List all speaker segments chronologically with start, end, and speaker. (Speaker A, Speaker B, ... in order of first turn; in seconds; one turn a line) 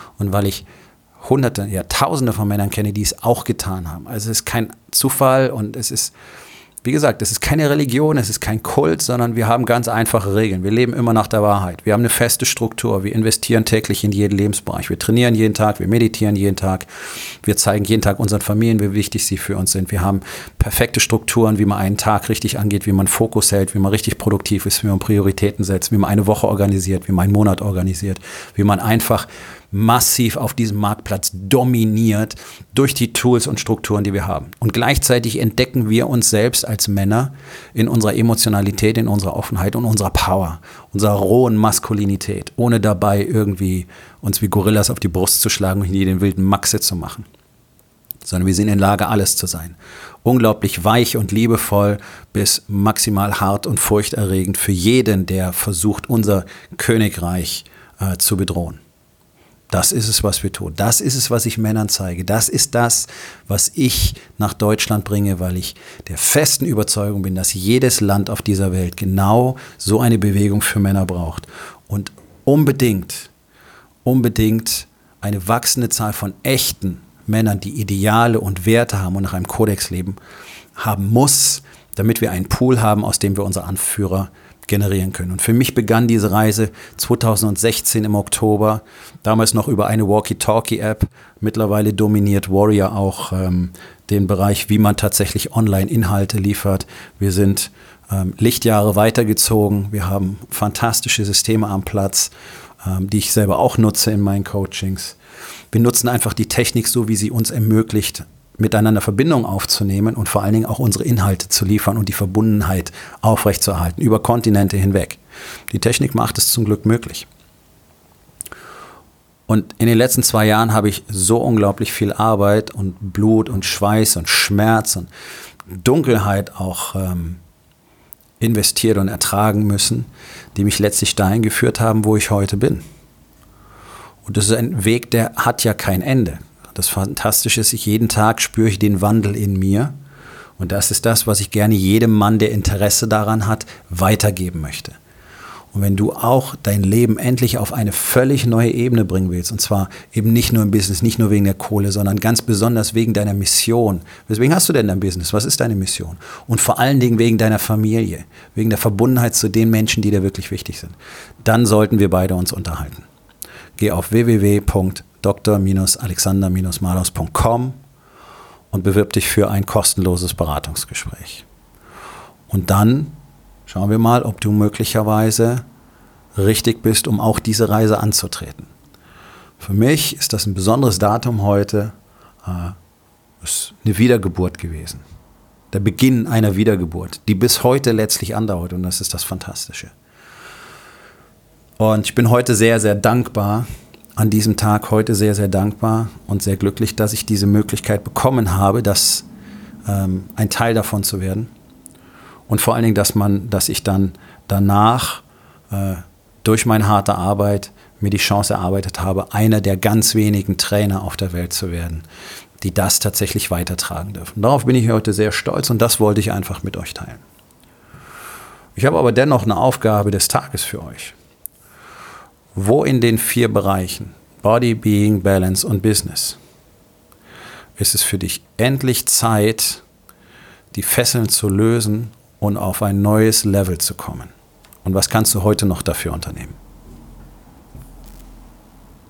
Speaker A: 0.2-0.7
Speaker A: 1.2-6.1
Speaker A: 6.8-16.9
Speaker A: 17.4-47.2
Speaker A: 48.2-58.8
Speaker A: 59.7-73.3
Speaker A: 74.0-80.2
Speaker A: 80.8-105.2
Speaker A: 105.7-117.3
Speaker A: 119.5-125.1
Speaker A: 125.7-127.4
Speaker A: 128.4-132.8
Speaker A: 134.2-139.9
Speaker A: 140.6-145.0
Speaker A: 145.7-163.1
Speaker A: 163.8-167.8
Speaker A: 168.7-171.4
Speaker A: 172.5-175.6
Speaker A: 176.4-178.7
Speaker A: 179.6-182.8
Speaker A: 183.4-185.0
Speaker A: 185.7-189.9
Speaker A: 191.8-199.3
Speaker A: 199.9-201.5
Speaker A: 202.5-212.1
Speaker A: 212.6-217.2
Speaker A: 218.8-221.2
Speaker A: 222.6-226.4
Speaker A: 227.8-229.8
Speaker A: 230.7-234.3
Speaker A: 234.8-236.6